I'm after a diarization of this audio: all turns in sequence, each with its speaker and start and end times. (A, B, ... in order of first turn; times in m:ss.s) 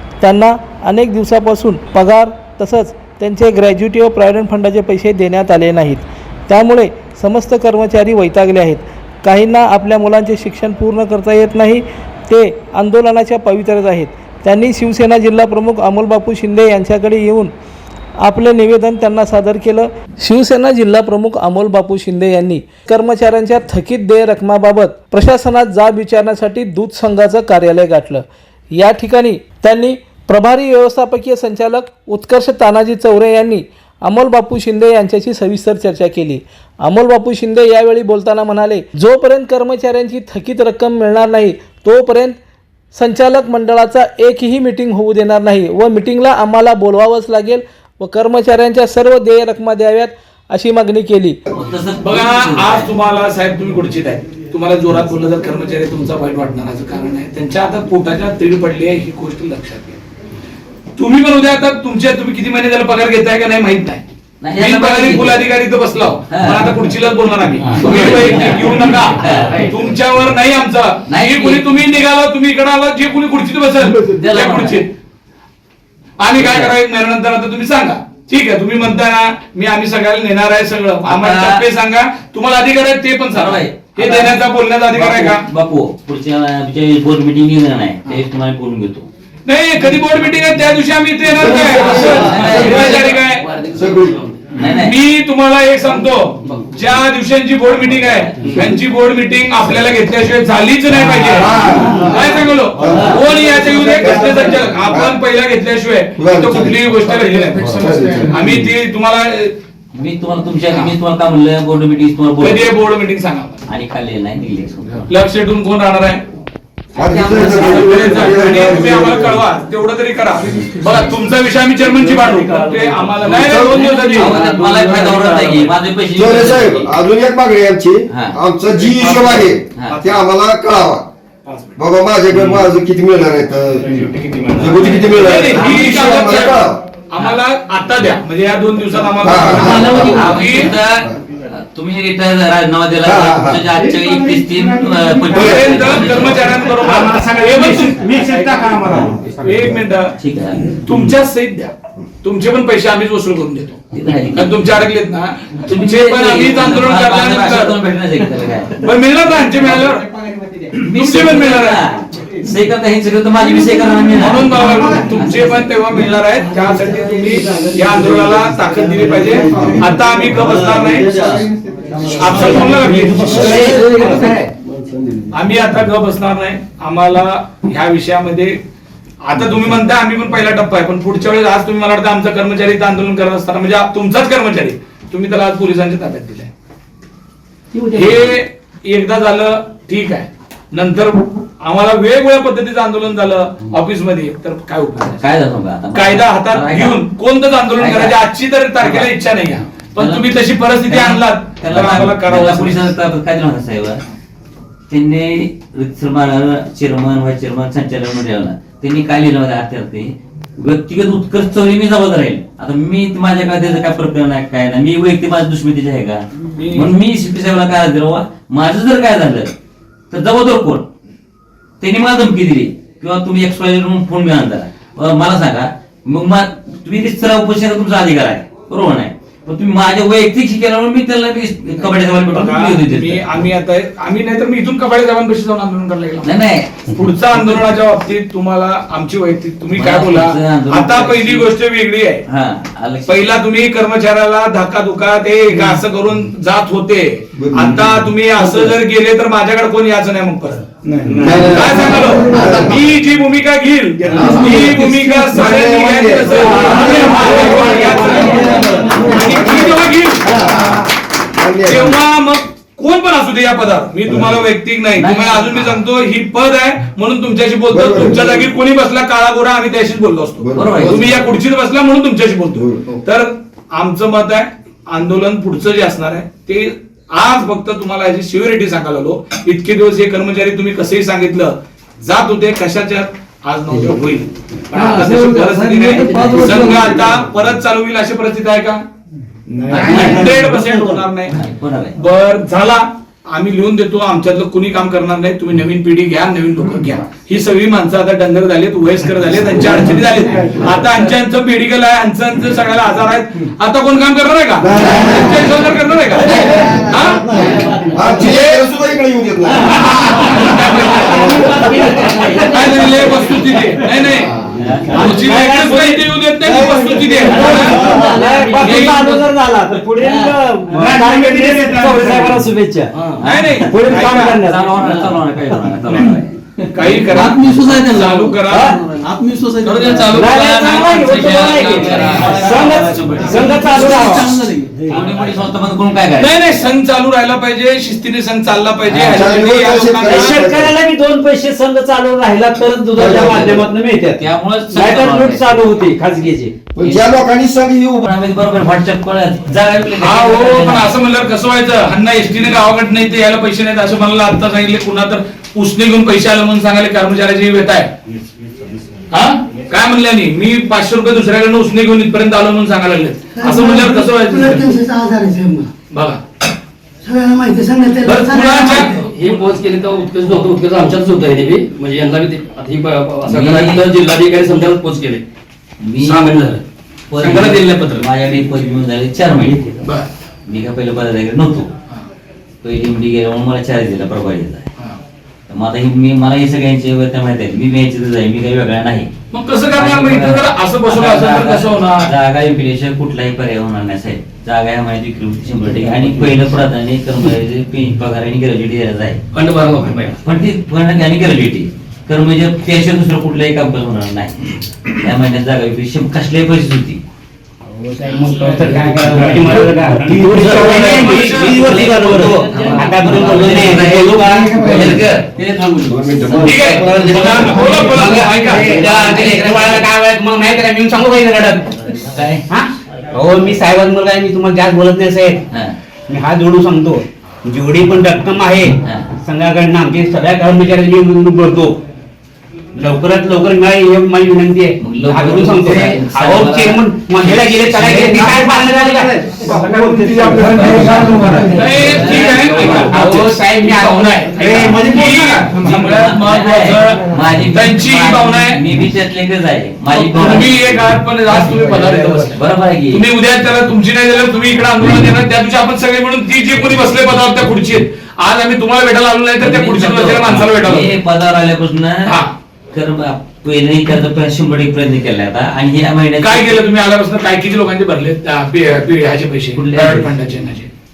0:00.2-0:17.5 A
0:18.2-0:42.4 A
0:42.9-0:51.4 A
0:51.5-0:52.9 B
0:52.0-1:00.0 C
1:01.0-1:14.9 C
1:04.4-1:05.4 B
1:06.3-1:06.7 B
1:07.6-1:09.7 B
1:11.1-1:11.7 B
1:14.0-1:14.8 B
1:16.2-1:25.4 C
1:16.4-1:16.7 B
1:21.0-1:21.6 B
1:23.3-1:24.4 B
1:25.0-1:29.1 B
1:29.5-1:33.4 C
1:31.4-1:33.0 D
1:31.7-1:33.1 B
1:33.1-1:34.5 E
1:33.8-1:34.2 D
1:34.5-1:34.9 B
1:34.6-1:49.6 C
1:41.3-1:42.1 D
1:42.8-1:45.1 D
1:46.2-1:47.1 D
1:47.6-1:48.5 D
1:49.9-1:52.7 B
1:52.4-1:53.6 C
1:53.7-1:55.1 B
1:55.1-1:56.2 C
1:57.0-1:59.4 D
1:57.0-1:58.5 B
1:57.6-2:04.5 C
2:02.1-2:05.5 F
2:03.3-2:04.0 D
2:04.1-2:06.9 B
2:06.2-2:11.1 D
2:08.1-2:08.4 B
2:08.9-2:09.4 C
2:11.8-2:16.8 D
2:14.6-2:20.7 C
2:15.5-2:16.3 B
2:19.2-2:20.2 D
2:19.7-2:26.8 B
2:23.0-2:23.6 D
2:23.9-2:25.8 F
2:25.3-2:30.2 C
2:26.8-2:29.4 F
2:30.2-2:30.8 B
2:30.7-2:37.8 C
2:33.9-2:34.7 B
2:35.7-2:38.8 B
2:38.8-2:40.0 C
2:40.8-2:45.7 B
2:40.9-2:41.8 C
2:44.2-2:51.3 C
2:49.2-2:49.8 F
2:50.9-2:54.2 F
2:52.1-2:53.7 C
2:52.5-2:54.4 G
2:55.3-2:58.6 C
2:59.2-3:06.5 C
3:07.7-3:08.1 G
3:07.9-3:15.2 C
3:15.1-3:17.0 B
3:15.9-3:22.9 C
3:17.8-3:18.2 B
3:18.8-3:19.1 B
3:20.0-3:24.0 B
3:24.9-3:39.5 B
3:36.4-3:36.9 C
3:40.1-3:40.9 B
3:41.8-3:53.3 B
3:52.3-3:56.3 C
3:56.2-3:56.9 B
3:56.9-4:02.2 C
3:59.8-4:01.5 B
4:02.3-4:03.4 B
4:03.1-4:10.7 C
4:07.4-4:07.8 D
4:11.0-4:11.5 F
4:11.2-4:12.7 D
4:11.3-4:20.5 C
4:14.1-4:15.3 F
4:14.2-4:14.7 D
4:15.3-4:20.7 D
4:16.6-4:19.1 F
4:21.3-4:22.0 D
4:21.7-4:48.8 C
4:24.1-4:24.4 D
4:25.0-4:25.8 B
4:27.7-4:28.5 D
4:30.4-4:31.1 D
4:30.6-4:31.2 B
4:32.6-4:32.9 D
4:44.8-4:47.2 F
4:49.6-4:50.8 F
4:49.7-4:51.4 C
4:49.8-4:50.2 B
4:51.3-4:51.9 B
4:52.0-5:07.4 C
5:04.6-5:05.3 D
5:07.7-5:09.8 D
5:08.2-5:08.7 C
5:09.6-5:14.3 C
5:12.1-5:12.5 B
5:14.6-5:15.1 B
5:14.9-5:17.9 C
5:15.3-5:15.9 G
5:16.4-5:18.2 F
5:17.3-5:22.9 G
5:18.4-5:19.3 C
5:20.7-5:22.5 F
5:23.2-5:26.4 B
5:23.2-5:24.5 C
5:23.7-5:25.1 G
5:26.7-5:28.8 C
5:27.1-5:30.3 F
5:27.4-5:27.9 B
5:28.5-5:28.7 G
5:29.6-5:32.4 C
5:30.1-5:34.3 G
5:30.3-5:36.8 B
5:32.0-5:34.9 F
5:36.2-5:40.5 C
5:38.9-5:39.3 B
5:39.1-5:40.8 D
5:40.1-5:46.5 G
5:43.0-5:43.5 D
5:43.0-5:45.6 B
5:46.8-5:48.1 D
5:46.8-5:47.2 B
5:48.1-5:50.9 B
5:50.0-5:57.9 C
5:59.1-6:04.7 C
6:03.4-6:05.7 H
6:05.9-6:06.2 C
6:07.0-6:09.0 H
6:08.0-6:09.4 C
6:09.0-6:15.2 E
6:13.3-6:13.9 B
6:15.8-6:19.8 B
6:16.1-6:16.6 E
6:17.2-6:18.0 C
6:17.4-6:17.9 E
6:19.8-6:20.1 C
6:20.5-6:21.7 B
6:22.6-6:24.7 B
6:25.5-6:29.1 B
6:29.3-6:32.1 C
6:29.7-6:39.2 B
6:39.4-6:40.2 E
6:40.2-6:47.0 B
6:47.7-6:54.8 G
6:49.0-6:51.2 F
6:50.3-6:50.9 B
6:50.6-6:51.7 C
6:51.4-6:57.5 B
6:54.5-6:55.0 F
6:55.9-6:57.6 D
6:56.4-6:58.9 C
6:56.9-7:02.0 G
6:58.9-6:59.3 B
7:02.1-7:02.4 B
7:02.5-7:05.4 G
7:06.1-7:11.8 G
7:12.8-7:21.2 G
7:14.8-7:18.2 B
7:18.2-7:22.0 F
7:21.4-7:28.6 C
7:21.7-7:23.0 B
7:22.3-7:25.7 G
7:24.7-7:25.7 F
7:25.8-7:30.8 B
7:29.9-7:32.4 C
7:32.3-7:33.0 B
7:32.9-7:40.9 C
7:39.4-7:42.2 B
7:42.7-7:46.6 B
7:46.2-7:50.7 C
7:49.5-7:50.2 B